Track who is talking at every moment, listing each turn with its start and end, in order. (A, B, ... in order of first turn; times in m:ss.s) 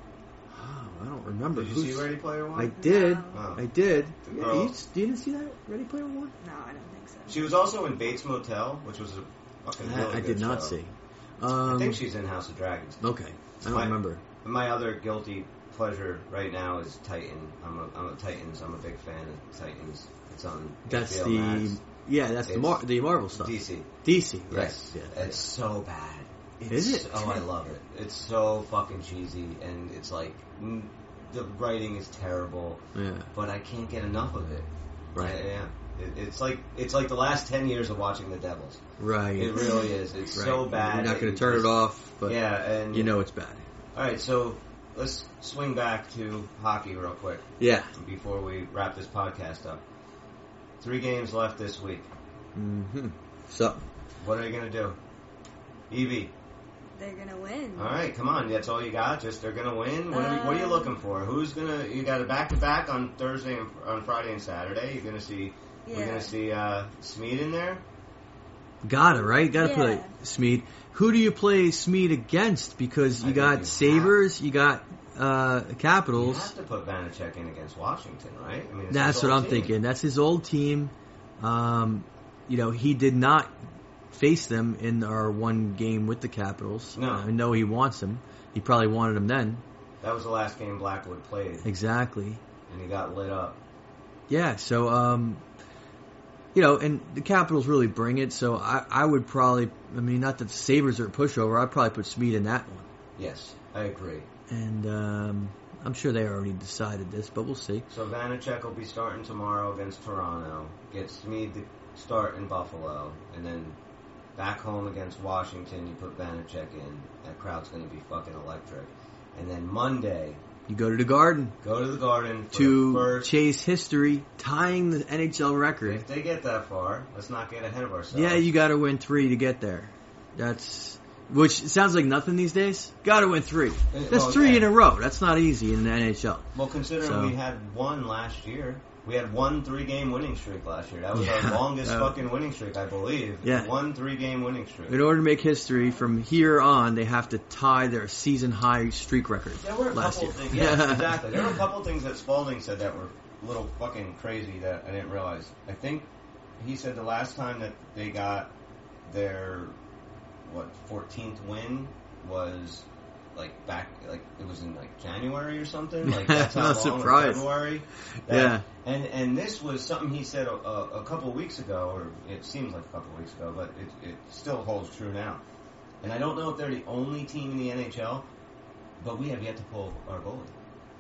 0:00.5-0:06.3 A
0:01.5-0:02.8 B
0:02.8-0:03.5 C
0:03.3-0:03.7 B
0:04.2-0:04.8 B
0:06.4-0:07.5 C
0:07.3-0:10.8 B
0:09.8-0:12.0 A
0:11.6-0:13.0 B
0:13.0-0:14.2 A
0:13.7-0:21.8 B
0:20.9-0:25.4 A
0:22.4-0:23.9 B
0:24.5-0:32.8 B
0:26.7-0:27.4 A
0:33.0-0:33.3 A
0:33.3-0:38.8 B
0:35.2-0:35.4 A
0:39.0-0:39.7 A
0:39.4-0:43.2 B
0:39.6-0:39.9 C
0:40.3-0:43.6 A
0:44.0-0:49.8 B
0:47.6-0:47.9 A
0:50.8-0:52.1 B
0:52.6-0:53.8 A
0:54.2-0:55.0 B
0:55.9-0:56.3 B
0:57.0-0:58.0 C
0:57.8-1:07.8 B
1:00.1-1:00.9 C
1:05.9-1:06.3 C
1:08.8-1:16.5 A
1:09.6-1:10.1 C
1:13.2-1:14.2 B
1:16.2-1:19.7 B
1:18.9-1:23.5 A
1:24.1-1:29.6 A
1:27.0-1:27.3 B
1:30.0-1:31.7 B
1:31.6-1:32.4 A
1:32.7-1:33.6 B
1:34.3-1:35.4 A
1:36.5-1:42.9 A
1:43.2-1:44.3 B
1:44.5-1:47.9 A
1:47.9-1:53.8 B
1:54.4-2:00.4 B
2:00.7-2:01.6 A
2:01.6-2:03.3 B
2:02.5-2:06.0 A
2:05.8-2:08.5 B
2:08.1-2:17.4 A
2:13.9-2:14.7 B
2:16.6-2:25.1 B
2:21.1-2:22.2 A
2:23.4-2:23.7 A
2:24.9-2:31.2 A
2:29.6-2:36.1 B
2:36.6-2:38.5 B
2:39.1-2:39.7 B
2:40.4-2:55.4 B
2:46.0-2:47.6 A
2:48.3-2:48.7 A
2:56.0-2:58.3 B
2:59.0-3:00.5 B